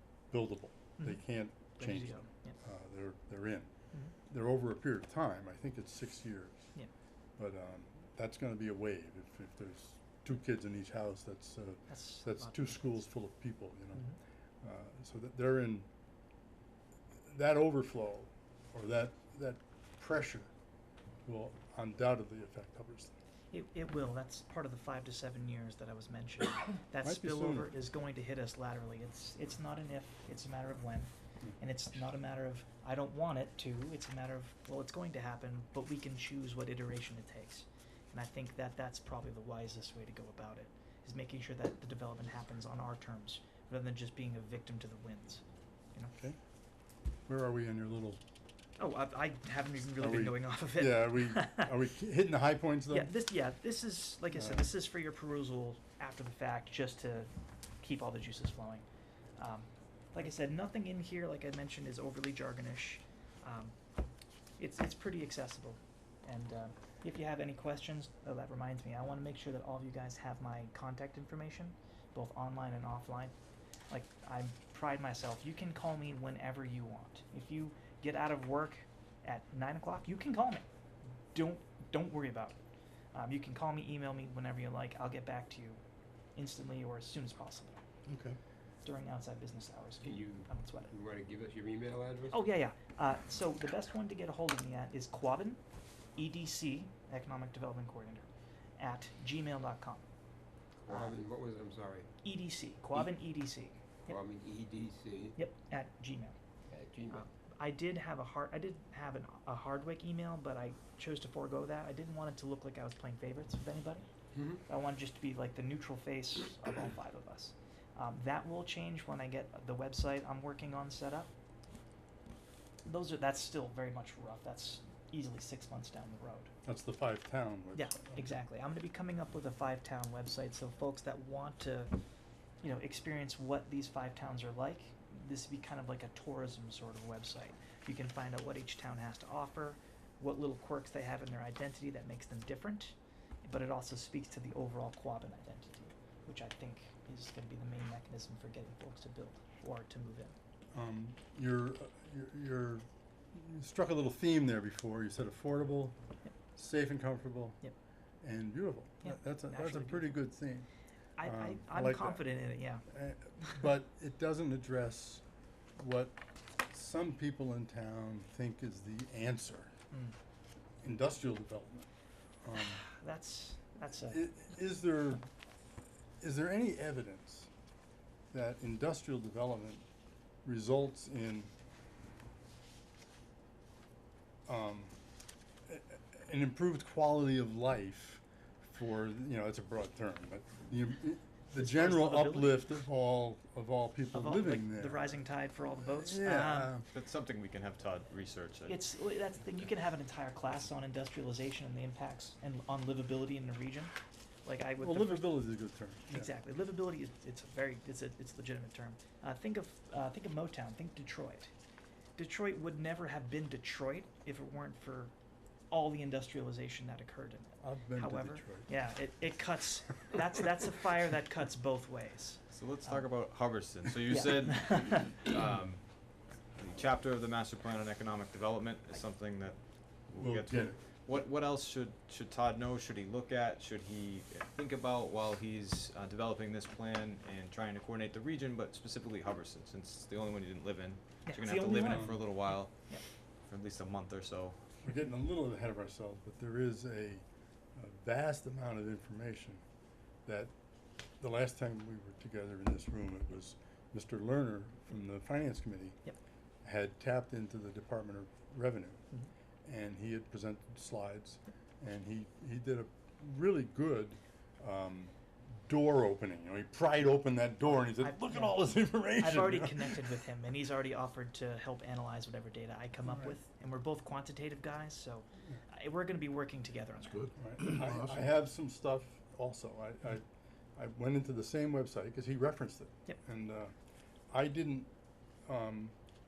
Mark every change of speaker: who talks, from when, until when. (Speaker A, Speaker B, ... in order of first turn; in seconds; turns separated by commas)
Speaker A: 0.3-3.7, Speaker B: 1.0-2.5, Speaker A: 4.3-6.6, Speaker A: 7.4-14.1, Speaker B: 11.9-12.9, Speaker A: 14.6-15.9, Speaker A: 17.3-20.5, Speaker A: 21.2-23.1, Speaker B: 23.5-45.4, Speaker A: 27.0-27.7, Speaker A: 47.3-48.2, Speaker B: 48.8-51.7, Speaker A: 50.0-53.1, Speaker B: 52.9-57.3, Speaker A: 54.4-54.6, Speaker B: 57.8-58.9, Speaker B: 59.4-63.7, Speaker B: 64.6-73.3, Speaker B: 73.9-80.7, Speaker B: 81.3-82.6, Speaker B: 83.1-85.8, Speaker B: 86.3-87.8, Speaker A: 88.1-88.4, Speaker B: 88.8-90.9, Speaker C: 90.0-92.4, Speaker B: 92.3-95.6, Speaker B: 96.2-98.3, Speaker B: 98.8-100.0, Speaker C: 100.8-102.1, Speaker B: 100.9-101.2, Speaker B: 102.2-104.2, Speaker C: 104.0-105.3, Speaker B: 105.3-106.3, Speaker C: 106.7-107.3, Speaker B: 107.1-114.1, Speaker C: 114.3-114.6, Speaker B: 114.7-121.3, Speaker B: 122.8-126.5, Speaker A: 126.6-128.3, Speaker B: 127.7-131.9, Speaker B: 132.6-150.3, Speaker A: 150.7-155.9, Speaker A: 156.5-157.6, Speaker A: 158.2-160.7, Speaker B: 159.0-160.1, Speaker B: 161.2-162.8, Speaker A: 161.2-162.2, Speaker A: 162.9-165.2, Speaker A: 165.8-166.2, Speaker A: 166.7-169.7, Speaker A: 170.8-171.9, Speaker A: 172.4-172.8, Speaker B: 172.6-174.3, Speaker A: 174.1-175.2, Speaker A: 176.2-177.5, Speaker A: 178.3-179.8, Speaker A: 180.4-181.5, Speaker A: 184.5-184.9, Speaker A: 185.7-195.0, Speaker B: 191.5-192.8, Speaker B: 194.1-196.7, Speaker A: 195.8-196.9, Speaker D: 196.9-198.8, Speaker B: 198.7-203.9, Speaker B: 204.4-205.5, Speaker A: 204.8-206.3, Speaker B: 206.1-211.5, Speaker B: 212.2-215.1, Speaker B: 215.7-223.1, Speaker A: 217.6-218.7, Speaker D: 222.5-242.7, Speaker B: 224.1-225.2, Speaker A: 230.2-230.8, Speaker B: 241.2-243.0, Speaker A: 241.8-242.2, Speaker D: 243.5-244.6, Speaker A: 244.8-247.2, Speaker A: 247.7-249.6, Speaker A: 250.2-250.5, Speaker A: 251.2-256.0, Speaker A: 256.6-259.0, Speaker A: 259.6-265.1, Speaker A: 265.6-270.1, Speaker B: 267.8-277.3, Speaker A: 273.0-273.4, Speaker A: 277.3-280.2, Speaker A: 280.8-283.7, Speaker A: 284.3-284.9, Speaker A: 285.4-285.9